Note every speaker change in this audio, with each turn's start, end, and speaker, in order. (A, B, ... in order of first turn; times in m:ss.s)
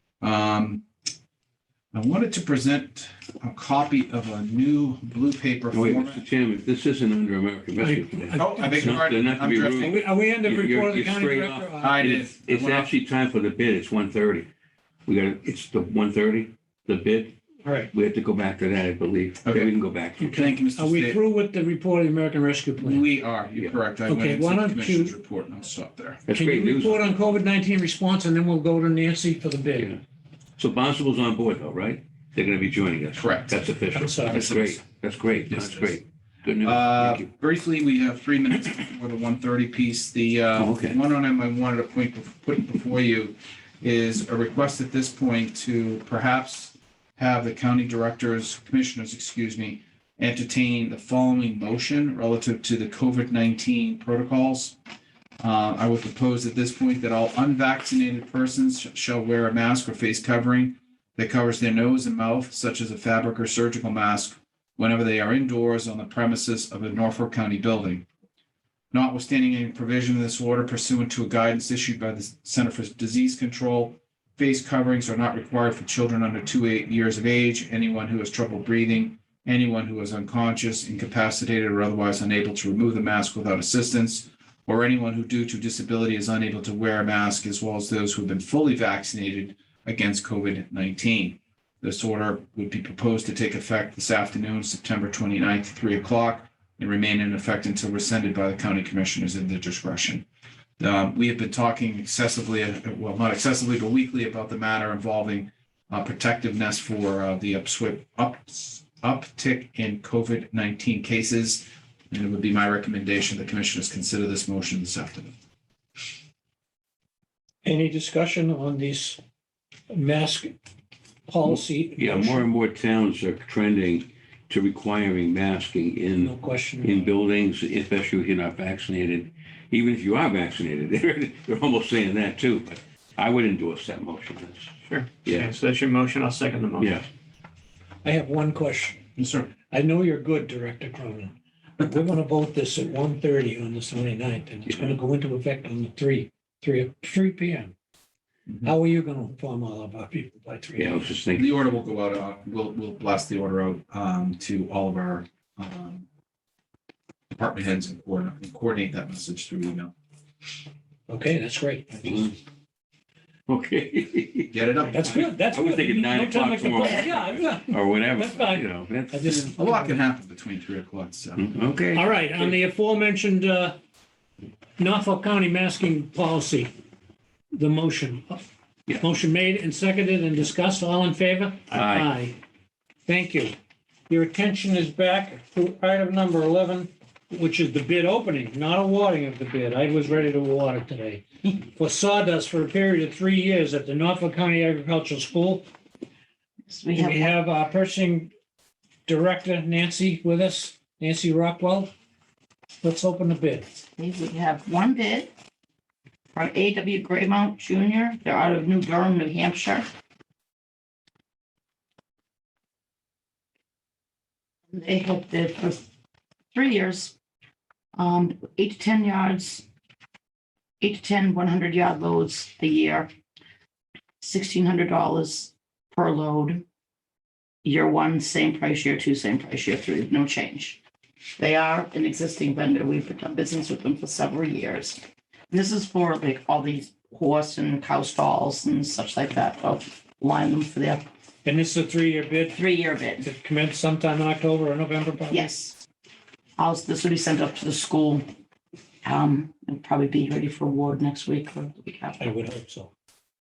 0:00.2-0:00.8 A
0:01.9-0:06.2 A
0:05.7-0:14.5 B
0:07.8-0:09.1 C
0:08.4-0:10.0 A
0:09.8-0:12.0 C
0:11.8-0:12.9 A
0:15.1-0:17.4 B
0:17.6-0:17.9 C
0:17.9-0:20.4 B
0:19.4-0:21.2 A
0:20.2-0:23.0 C
0:22.8-0:26.2 A
0:24.1-0:25.2 C
0:26.3-0:27.1 B
0:26.3-0:29.9 C
0:30.6-0:37.3 B
0:33.2-0:34.8 A
0:33.9-0:34.5 C
0:35.5-0:36.0 A
0:36.6-0:54.8 A
0:40.6-0:41.0 B
0:55.4-1:08.0 A
1:08.9-1:40.3 A
1:40.8-1:55.3 A
1:57.6-1:59.2 C
1:59.9-2:00.5 C
2:01.3-2:02.5 C
2:01.5-2:15.5 B
2:06.2-2:07.1 C
2:14.9-2:16.9 D
2:16.8-2:17.1 B
2:18.0-2:19.0 C
2:19.2-2:19.5 A
2:19.7-2:27.7 C
2:24.7-2:25.0 B
2:28.6-2:31.1 C
2:30.8-2:31.5 B
2:31.4-2:36.1 A
2:37.3-2:39.9 A
2:41.1-2:42.3 C
2:42.0-2:42.4 B
2:43.5-2:49.5 B
2:44.5-2:45.3 A
2:44.9-2:50.0 C
2:49.3-2:51.4 A
2:51.4-2:52.6 B
2:51.9-2:53.8 C
2:54.8-2:56.7 C
2:57.5-2:58.4 C
2:59.0-3:02.4 C
3:01.7-3:02.1 B
3:03.1-3:03.6 C
3:04.1-3:15.7 C
3:16.7-3:17.4 E
3:16.9-3:18.3 C
3:19.1-3:21.9 C
3:22.8-3:23.8 C
3:24.0-3:25.3 E
3:26.3-3:29.9 E
3:34.7-3:35.8 E
3:36.5-3:37.1 E
3:38.0-3:39.6 E
3:40.8-3:43.1 E
3:44.2-3:46.6 E
3:47.6-3:50.8 E
3:51.4-4:01.0 E
4:01.4-4:02.6 C
4:02.5-4:03.3 E
4:03.2-4:05.5 C
4:05.3-4:05.8 E
4:06.6-4:08.3 E
4:09.0-4:12.3 E
4:12.2-4:12.9 C